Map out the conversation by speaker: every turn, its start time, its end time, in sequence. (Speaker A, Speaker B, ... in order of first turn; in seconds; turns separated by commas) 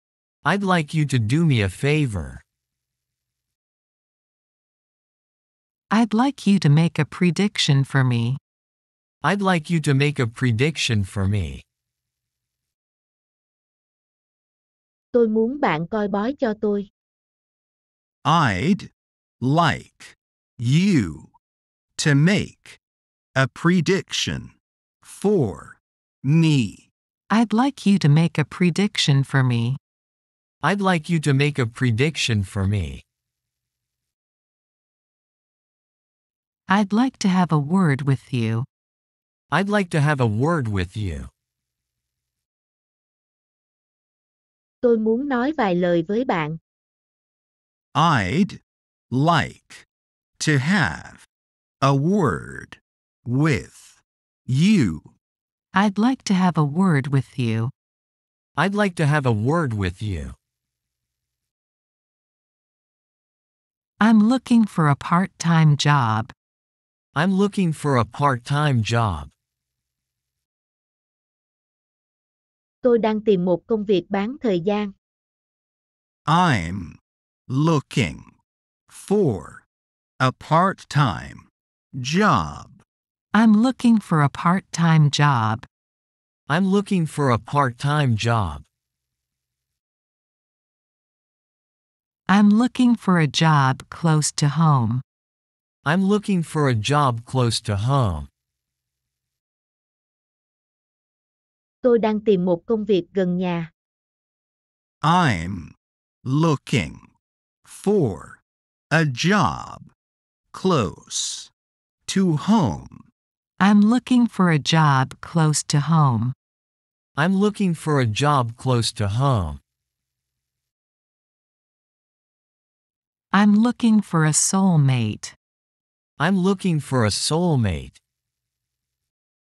Speaker A: 0.4-2.4, Speaker B: 5.9-8.4, Speaker A: 9.2-11.6, Speaker C: 15.1-16.9, Speaker D: 18.2-18.9, Speaker D: 19.4-21.3, Speaker D: 21.9-22.8, Speaker D: 23.3-26.9, Speaker B: 27.3-29.8, Speaker A: 30.6-33.0, Speaker B: 36.7-38.7, Speaker A: 39.5-41.3, Speaker C: 44.8-46.6, Speaker D: 47.9-48.6, Speaker D: 49.1-49.9, Speaker D: 50.4-51.3, Speaker D: 51.8-55.1, Speaker B: 55.7-57.7, Speaker A: 58.6-60.3, Speaker B: 64.0-66.3, Speaker A: 67.1-69.3, Speaker C: 72.8-74.9, Speaker D: 76.3-78.3, Speaker D: 78.9-79.6, Speaker D: 80.2-82.8, Speaker B: 83.3-85.7, Speaker A: 86.5-88.6, Speaker B: 92.3-95.0, Speaker A: 95.8-98.3, Speaker C: 101.8-103.7, Speaker D: 105.0-107.1, Speaker D: 107.7-109.9, Speaker D: 110.5-111.5, Speaker D: 112.1-113.0, Speaker B: 113.6-116.3, Speaker A: 117.2-119.6, Speaker B: 123.3-125.3, Speaker A: 126.2-128.0